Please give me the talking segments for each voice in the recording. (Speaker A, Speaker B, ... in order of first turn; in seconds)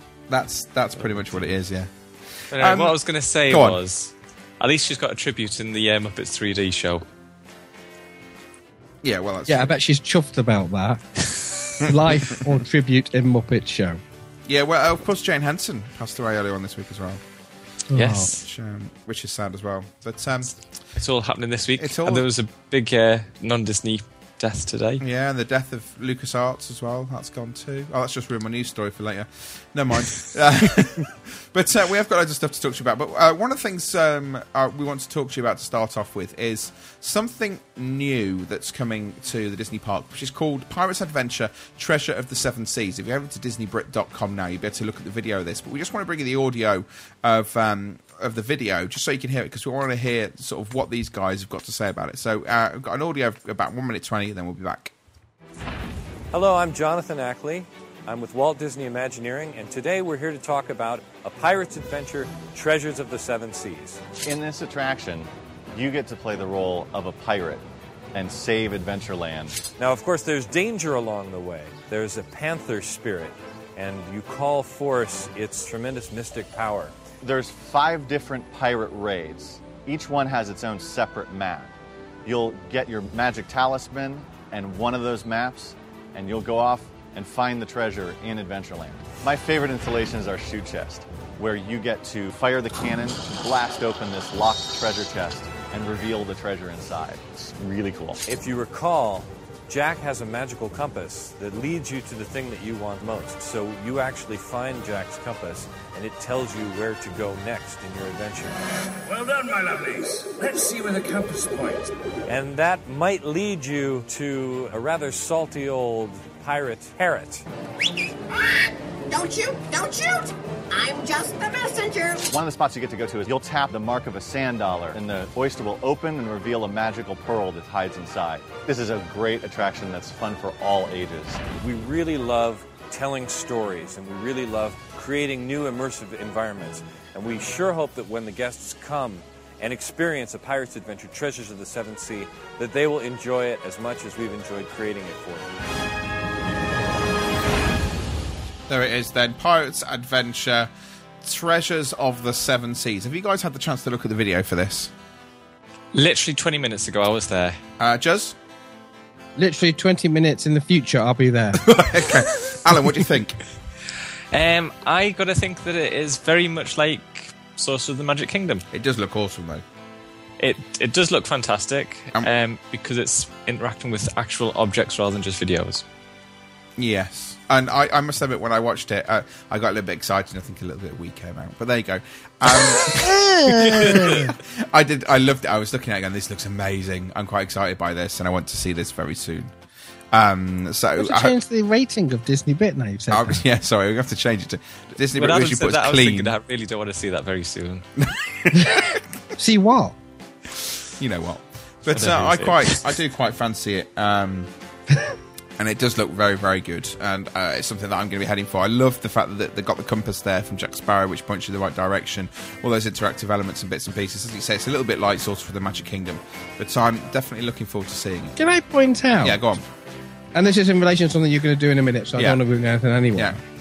Speaker A: 0.3-3.8, 9.0-9.7, 11.9-12.4, 14.5-17.2, 18.4-20.6, 21.8-22.3, 25.0-54.9, 148.7-150.7, 151.2-154.9, 157.8-158.4, 161.6-163.4, 168.7-169.6, 176.8-189.5, 190.1-191.3, 193.1-196.3, 198.0-199.0, 201.0-204.5, 205.6-218.4, 219.2-219.7, 222.2-222.4
Speaker B: 2.5-7.0, 17.9-18.4, 21.0-25.0, 155.9-157.6, 164.3-168.7, 170.4-175.8, 195.1-197.9, 201.9-202.8
Speaker C: 9.5-11.0, 11.8-14.0, 17.9-18.3, 159.4-161.6, 182.9-184.3, 191.0-193.4, 199.4-200.0, 218.4-219.4, 220.3-223.4
Speaker D: 56.3-64.0, 69.8-77.0, 98.2-108.7, 112.3-117.5, 131.6-145.5
Speaker E: 64.2-69.7, 77.2-81.7, 82.2-98.2, 122.3-131.6
Speaker F: 109.1-111.9
Speaker G: 119.1-122.2